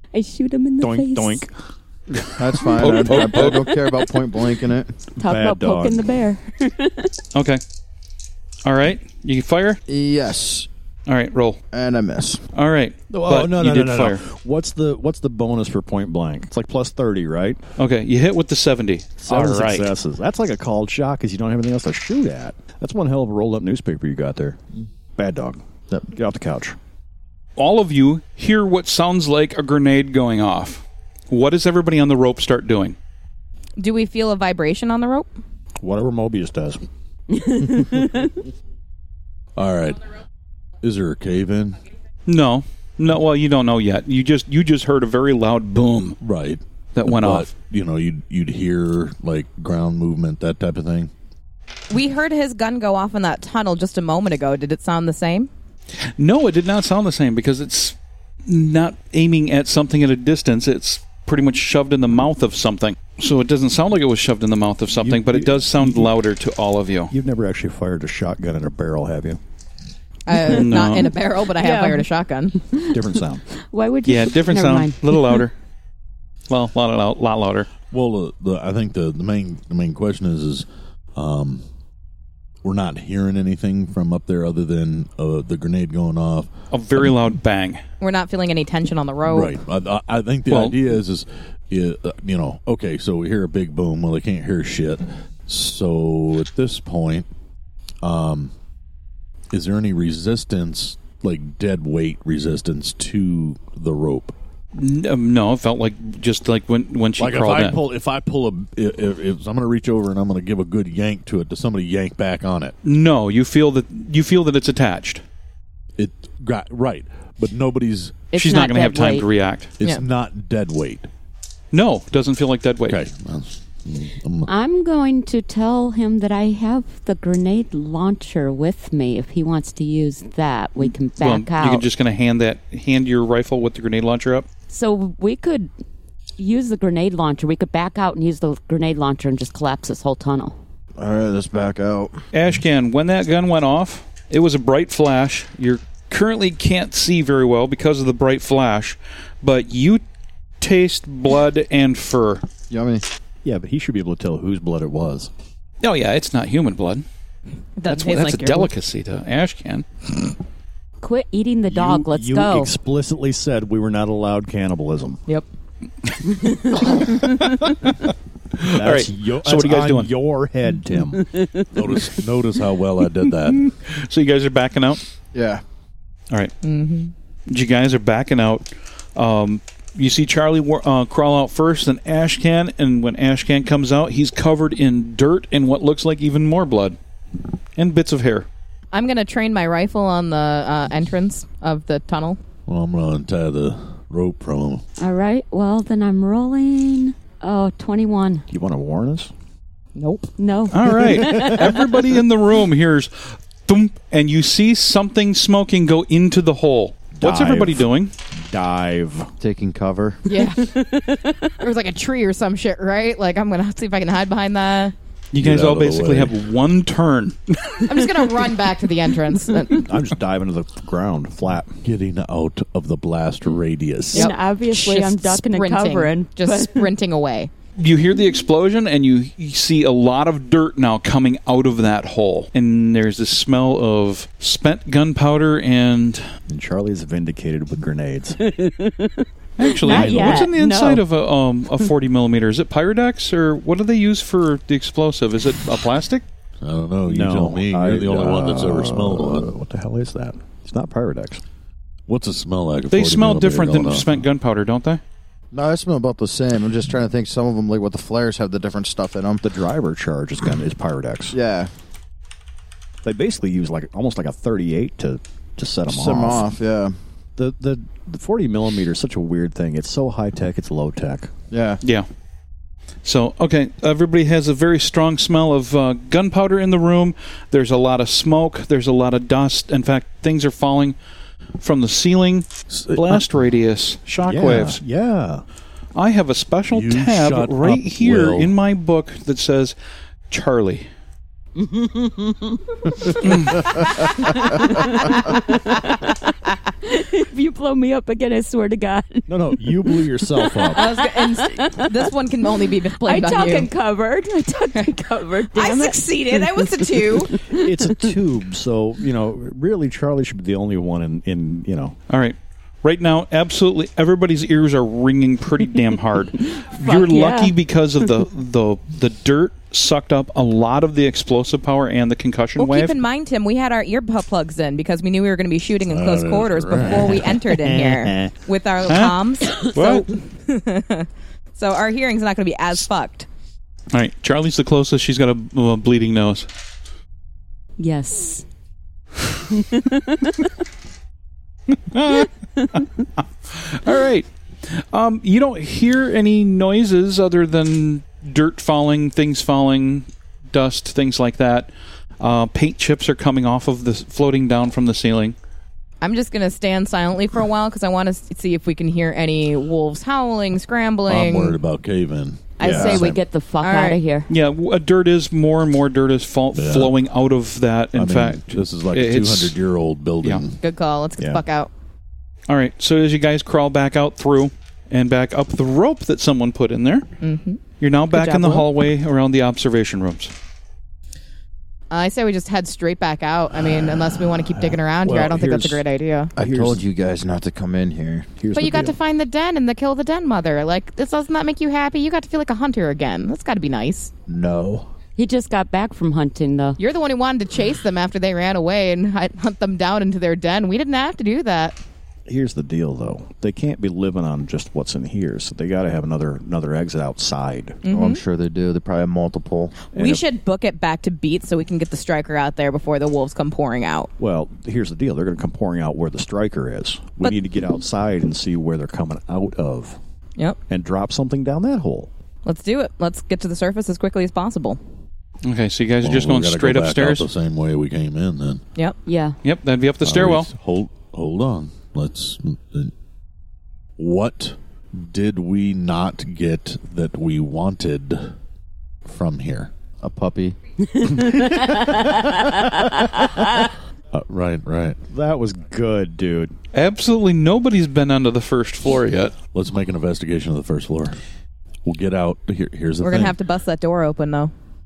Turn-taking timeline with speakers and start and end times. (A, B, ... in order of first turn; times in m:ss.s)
0:00.1-0:01.4 A
0:00.8-0:01.5 B
0:02.3-0:03.7 C
0:02.4-0:04.9 D
0:05.2-0:07.1 A
0:05.2-0:06.1 B
0:07.3-0:07.6 C
0:08.6-0:09.8 C
0:09.9-0:10.7 D
0:11.1-0:11.6 C
0:11.7-0:12.4 D
0:12.5-0:14.2 C
0:13.1-0:17.6 B
0:17.8-0:19.9 C
0:19.2-0:24.6 B
0:25.2-0:26.8 B
0:27.6-0:33.0 C
0:33.8-0:35.3 E
0:35.8-0:36.8 B
0:37.3-0:38.3 A
0:39.6-0:40.0 F
0:40.8-0:41.8 F
0:42.2-0:46.2 C
0:46.2-0:51.1 F
0:46.9-0:47.5 C
0:51.9-0:55.5 E
0:56.2-1:07.1 C
1:05.0-1:06.1 B
1:07.1-1:09.4 B
1:10.3-1:12.6 E
1:10.5-1:11.1 C
1:11.5-1:12.0 A
1:12.9-1:13.4 B
1:13.7-1:15.4 A
1:14.0-1:15.5 C
1:16.5-1:17.7 C
1:17.9-1:21.6 F
1:22.6-1:26.5 F
1:26.7-1:27.8 C
1:28.0-1:29.6 E
1:29.2-1:37.3 F
1:30.5-1:30.8 C
1:38.0-1:38.5 F
1:39.5-1:44.3 F
1:44.7-1:47.8 C
1:47.2-1:52.8 F
1:52.8-1:55.2 C
1:56.0-1:58.2 F
1:58.3-1:59.3 A
1:58.3-1:59.7 C
1:59.8-2:01.1 F
2:01.7-2:03.0 C
2:02.9-2:04.5 F
2:04.5-2:11.8 A
2:11.2-2:14.4 C
2:14.7-2:15.7 A
2:16.4-2:20.5 A
2:21.0-2:22.2 D
2:22.3-2:30.0 C
2:30.6-2:32.4 C
2:32.7-2:33.0 D
2:33.4-2:35.3 B
2:35.8-2:37.0 C
2:37.8-2:38.7 E
2:37.8-2:39.8 C
2:41.0-2:42.7 A
2:41.7-2:45.2 B
2:46.0-2:50.1 C
2:48.7-2:51.3 B
2:51.7-2:53.7 F
2:53.5-2:55.0 C
2:55.3-2:55.6 D
2:56.6-2:57.1 E
2:57.5-3:07.0 C
3:07.8-3:08.5 C
3:08.9-3:12.4 E
3:12.7-3:14.8 F
3:15.0-3:18.4 A
3:18.5-3:19.3 B
3:20.0-3:20.3 E
3:20.4-3:21.8 A
3:20.7-3:28.1 C
3:21.2-3:21.6 B
3:27.2-3:27.8 B
3:28.4-3:29.3 B
3:29.4-3:30.2 D
3:30.3-3:34.9 E
3:30.3-3:31.3 A
3:35.3-3:38.2 C
3:35.4-3:36.4 F
3:37.8-3:39.9 E
3:39.7-3:41.8 B
3:41.8-3:44.3 F
3:44.1-3:46.9 A
3:44.1-3:47.5 E
3:47.8-3:56.3 C
3:56.5-3:58.4 B
3:58.4-4:01.0 A
3:59.6-4:06.2 C
3:59.9-4:00.5 B
4:06.6-4:09.5 F
4:07.0-4:11.4 B
4:12.1-4:14.2 F
4:12.9-4:15.0 C
4:15.5-4:19.4 D
4:19.4-4:21.4 B
4:21.3-4:21.7 D
4:23.0-4:26.5 B
4:25.9-4:26.9 D
4:27.4-4:31.3 B
4:31.5-4:31.8 D
4:31.8-4:32.1 C
4:33.0-4:41.0 C
4:41.6-4:44.8 C
4:42.7-4:43.2 F
4:44.2-4:45.4 B
4:45.9-4:49.7 C
4:46.7-4:48.5 F
4:50.3-4:50.8 C
4:51.6-5:02.1 A
4:53.2-4:53.6 C
4:59.3-5:00.9 B
5:00.7-5:03.7 E
5:03.0-5:08.1 A
5:05.5-5:07.4 E
5:07.5-5:12.0 B
5:12.1-5:23.0 C
5:16.8-5:17.5 A
5:22.6-5:33.3 E
5:25.9-5:27.4 F
5:26.8-5:28.3 B
5:28.9-5:30.1 C
5:33.9-5:36.5 C
5:37.8-5:38.4 A
5:39.5-5:40.5 A
5:41.7-5:42.8 C
5:43.4-5:55.3 C
5:56.0-6:01.6 E
6:01.1-6:03.0 F
6:02.6-6:03.1 E
6:02.6-6:04.3 A
6:02.6-6:03.2 B
6:03.6-6:04.0 E
6:04.3-6:09.6 C
6:06.5-6:06.9 F
6:07.9-6:10.6 F
6:10.6-6:11.7 E
6:12.5-6:17.1 C
6:17.2-6:18.7 E
6:17.8-6:20.3 C
6:21.9-6:26.3 E
6:24.6-6:25.8 B
6:26.4-6:26.8 B
6:26.4-6:28.3 D
6:28.4-6:29.0 B
6:28.5-6:34.1 E
6:34.3-6:34.8 D
6:35.2-6:36.8 A
6:36.8-6:41.8 E
6:42.3-6:47.8 B
6:47.8-6:48.2 E
6:47.8-6:49.8 D
6:49.9-6:50.2 B
6:49.9-6:54.1 E
6:54.2-7:00.0 B
7:00.7-7:02.1 B
7:02.4-7:04.8 E
7:05.4-7:07.3 C
7:06.0-7:08.6 F
7:09.0-7:09.4 A
7:09.4-7:10.5 C
7:10.0-7:12.9 F
7:14.0-7:18.3 F
7:19.0-7:19.7 F
7:20.0-7:20.6 D
7:21.0-7:23.0 A
7:24.1-7:25.0 F
7:25.1-7:26.5 B
7:26.7-7:29.4 C
7:29.5-7:31.2 F
7:31.8-7:33.4 F
7:33.0-7:34.5 E